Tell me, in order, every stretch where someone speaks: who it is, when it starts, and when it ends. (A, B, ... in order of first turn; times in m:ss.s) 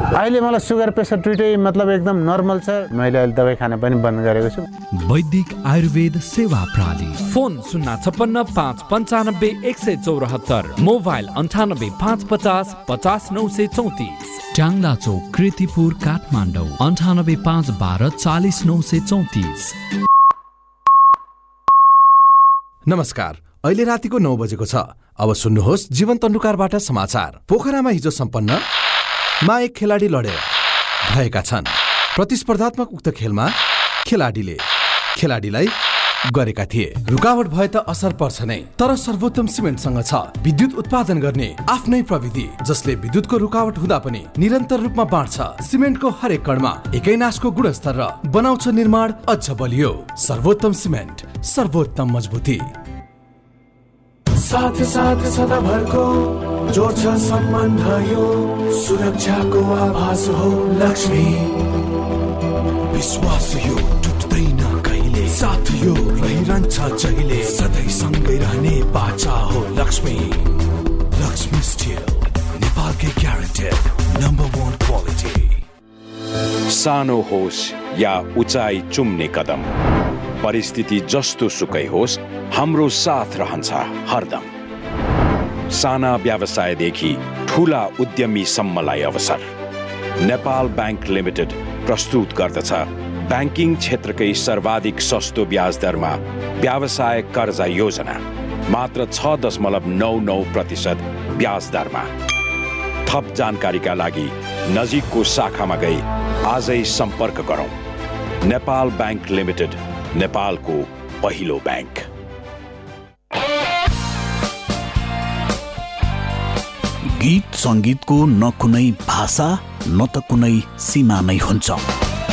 0:00.2-0:04.7 A
0:04.9-0:19.7 B
0:22.9-0:28.6 C
0:29.4-0:30.5 C
0:31.0-0:35.8 C
0:36.3-0:52.7 C
0:54.4-1:01.6 D
1:02.9-1:10.5 D
1:11.2-1:15.6 D
1:16.7-1:19.7 E
1:20.4-1:24.5 E
1:25.7-1:29.4 E
1:30.2-1:42.1 E
1:43.1-1:47.7 E
1:48.4-1:52.0 E
1:57.2-2:01.8 F